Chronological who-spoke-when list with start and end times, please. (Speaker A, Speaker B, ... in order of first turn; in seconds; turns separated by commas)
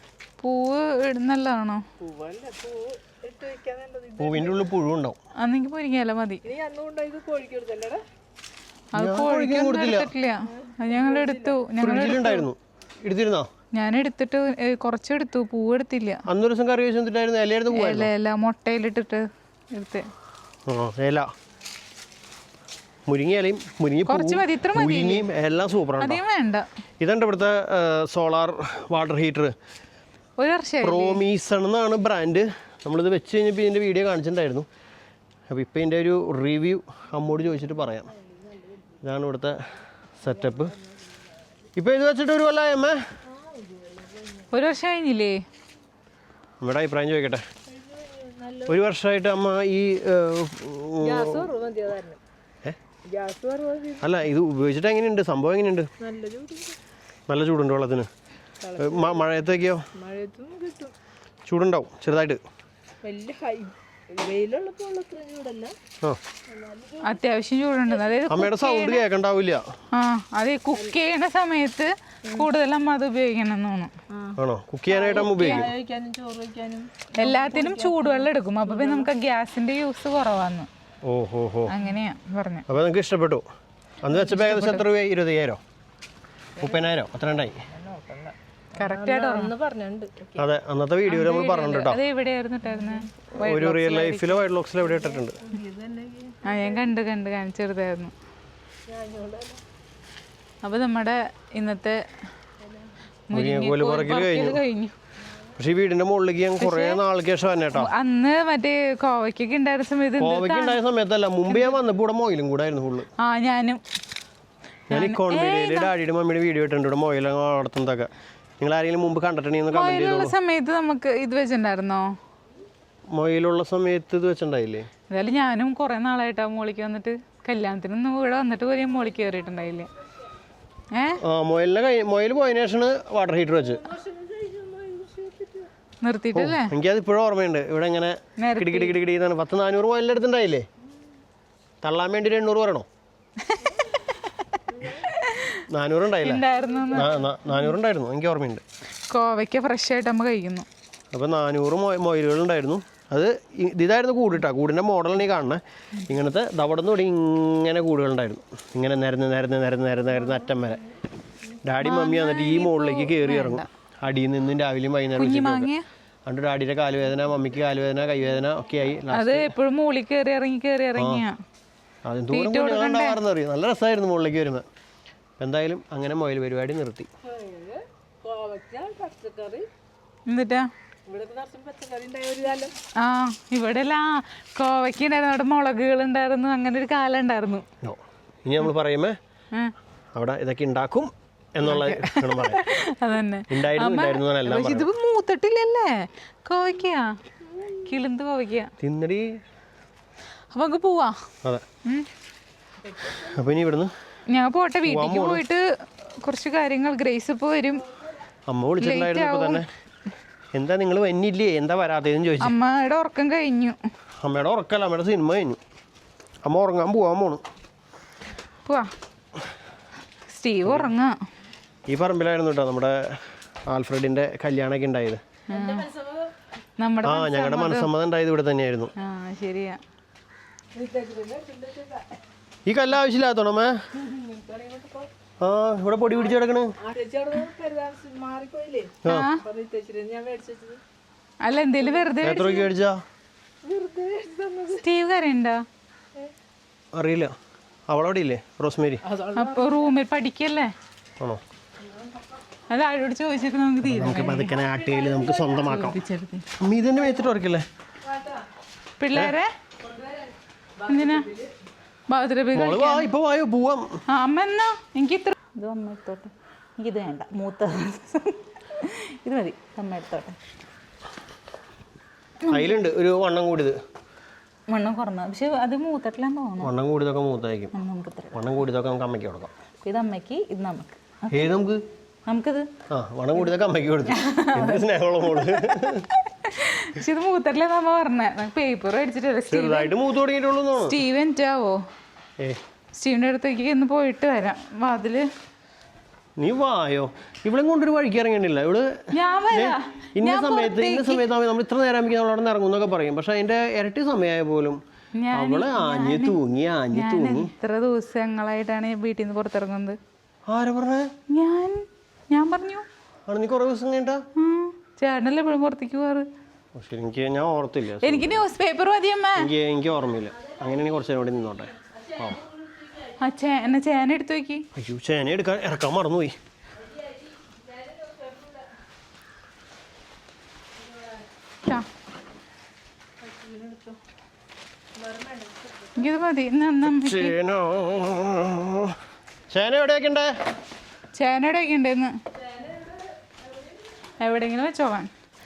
Speaker A: 0.4-1.8, Speaker B: 2.0-4.7, Speaker C: 4.2-5.2, Speaker A: 5.4-6.4, Speaker B: 6.4-8.0, Speaker A: 8.9-12.5, Speaker C: 8.9-10.1, Speaker B: 10.5-11.6, Speaker C: 11.8-13.5, Speaker A: 13.7-16.2, Speaker C: 16.3-18.1, Speaker A: 17.7-20.1, Speaker C: 20.7-21.3, Speaker C: 23.1-26.2, Speaker A: 24.1-25.2, Speaker A: 26.0-26.7, Speaker C: 27.0-29.5, Speaker A: 30.4-31.2, Speaker C: 30.8-34.7, Speaker C: 35.5-38.1, Speaker B: 38.1-39.0, Speaker C: 39.0-39.6, Speaker C: 40.2-40.7, Speaker B: 40.3-41.1, Speaker C: 41.8-43.0, Speaker B: 43.2-44.7, Speaker A: 44.5-45.4, Speaker C: 46.6-47.4, Speaker B: 47.7-48.8, Speaker C: 48.6-51.4, Speaker B: 51.0-52.2, Speaker B: 53.1-54.2, Speaker C: 54.0-55.9, Speaker B: 56.0-56.8, Speaker C: 57.3-58.1, Speaker B: 58.6-59.4, Speaker C: 58.8-59.8, Speaker B: 59.9-60.9, Speaker C: 61.5-62.4, Speaker B: 63.0-65.7, Speaker B: 66.5-67.2, Speaker A: 67.0-69.0, Speaker C: 68.3-69.7, Speaker A: 69.9-73.9, Speaker B: 74.1-79.1, Speaker C: 74.3-75.6, Speaker A: 75.1-75.7, Speaker A: 77.1-80.7, Speaker C: 81.0-81.7, Speaker A: 81.7-82.6, Speaker C: 82.7-83.4, Speaker C: 84.0-85.6, Speaker A: 84.0-84.8, Speaker B: 86.6-86.9, Speaker C: 86.6-87.5, Speaker B: 87.7-90.4, Speaker A: 88.8-89.5, Speaker C: 90.4-92.0, Speaker A: 91.1-94.5, Speaker B: 92.7-93.0, Speaker C: 93.3-95.4, Speaker B: 94.8-96.9, Speaker A: 96.4-98.1, Speaker B: 98.9-99.6, Speaker A: 100.6-102.0, Speaker B: 102.6-102.9, Speaker A: 103.3-104.9, Speaker C: 103.3-104.6, Speaker C: 105.5-107.9, Speaker A: 106.6-107.0, Speaker A: 107.7-110.8, Speaker C: 110.2-113.1, Speaker A: 111.5-111.8, Speaker A: 113.2-113.8, Speaker A: 114.9-115.9, Speaker C: 114.9-120.3, Speaker A: 119.7-122.1, Speaker C: 123.1-124.9, Speaker A: 125.1-129.9, Speaker A: 130.9-131.2, Speaker C: 131.2-133.8, Speaker B: 133.6-135.7, Speaker A: 136.0-136.7, Speaker C: 136.3-140.6, Speaker A: 138.4-139.0, Speaker C: 141.8-142.9, Speaker A: 143.4-144.2, Speaker B: 143.6-144.0, Speaker B: 144.7-145.1, Speaker A: 145.1-145.6, Speaker C: 145.7-148.6, Speaker A: 146.2-147.1, Speaker B: 146.6-147.3, Speaker A: 149.1-150.7, Speaker C: 151.1-160.8, Speaker B: 160.2-160.7, Speaker C: 161.6-165.7, Speaker A: 161.8-163.7, Speaker A: 165.2-165.8, Speaker C: 166.2-169.5, Speaker A: 169.1-171.4, Speaker C: 171.0-171.2, Speaker C: 172.0-174.6, Speaker A: 172.3-173.2, Speaker C: 175.4-177.1, Speaker B: 177.2-179.7, Speaker A: 180.3-180.7, Speaker B: 181.1-182.8, Speaker A: 183.0-187.6, Speaker C: 187.8-189.2, Speaker C: 190.1-192.6, Speaker A: 191.6-197.2, Speaker C: 193.5-194.9, Speaker B: 197.4-197.8, Speaker A: 197.8-198.7, Speaker C: 198.8-199.2, Speaker A: 200.5-201.2, Speaker B: 202.8-203.4, Speaker C: 203.0-203.9, Speaker A: 204.3-207.9, Speaker C: 204.8-205.4, Speaker C: 208.5-209.7, Speaker A: 208.8-209.6, Speaker C: 210.5-212.6, Speaker A: 212.4-213.8, Speaker C: 214.2-215.6, Speaker C: 216.4-217.4, Speaker A: 220.3-221.2, Speaker C: 220.7-220.9, Speaker C: 221.9-225.2, Speaker B: 225.5-226.3, Speaker A: 225.5-225.9, Speaker A: 226.8-227.9, Speaker C: 227.0-228.9, Speaker A: 229.0-229.8, Speaker B: 230.7-232.2, Speaker C: 232.7-233.7, Speaker B: 233.9-235.1, Speaker C: 235.4-236.7, Speaker B: 236.8-240.8, Speaker C: 239.0-239.3, Speaker A: 239.1-239.4, Speaker A: 241.4-242.7, Speaker B: 241.8-242.1, Speaker C: 242.2-243.0, Speaker B: 243.6-244.9, Speaker A: 244.7-245.6, Speaker C: 246.9-247.3, Speaker C: 247.9-249.0, Speaker B: 249.0-250.0, Speaker A: 249.3-250.7, Speaker A: 252.7-254.6, Speaker C: 253.8-256.0, Speaker B: 254.6-255.7, Speaker A: 255.6-256.5, Speaker C: 256.6-257.6, Speaker B: 258.0-258.5, Speaker A: 259.0-259.5, Speaker B: 259.8-261.5, Speaker A: 260.9-261.3, Speaker A: 262.1-263.1, Speaker C: 262.5-263.9, Speaker A: 264.1-270.4, Speaker A: 272.4-272.8, Speaker C: 272.5-273.8, Speaker A: 274.7-276.7, Speaker C: 276.6-277.7, Speaker A: 277.7-278.5, Speaker C: 278.3-279.5, Speaker A: 279.8-281.5, Speaker C: 281.3-281.8, Speaker A: 282.3-282.7, Speaker C: 282.9-286.1, Speaker A: 284.1-289.9, Speaker C: 289.5-291.0, Speaker A: 290.7-291.8, Speaker A: 292.9-295.2, Speaker C: 296.4-298.9, Speaker A: 299.1-301.2, Speaker C: 299.5-304.8, Speaker A: 305.2-306.4, Speaker C: 305.3-307.5, Speaker A: 306.9-310.0, Speaker C: 310.5-311.1, Speaker A: 311.3-312.9, Speaker C: 313.3-314.2, Speaker A: 314.4-316.3, Speaker C: 316.7-318.4, Speaker A: 318.0-319.5, Speaker C: 319.4-322.5, Speaker A: 323.2-324.6, Speaker C: 324.7-326.3, Speaker B: 326.9-328.7, Speaker B: 333.2-334.0, Speaker B: 334.9-336.1, Speaker A: 335.9-337.4, Speaker C: 336.8-339.0, Speaker C: 339.5-340.3, Speaker A: 341.1-342.1, Speaker B: 342.5-342.9, Speaker A: 344.2-345.1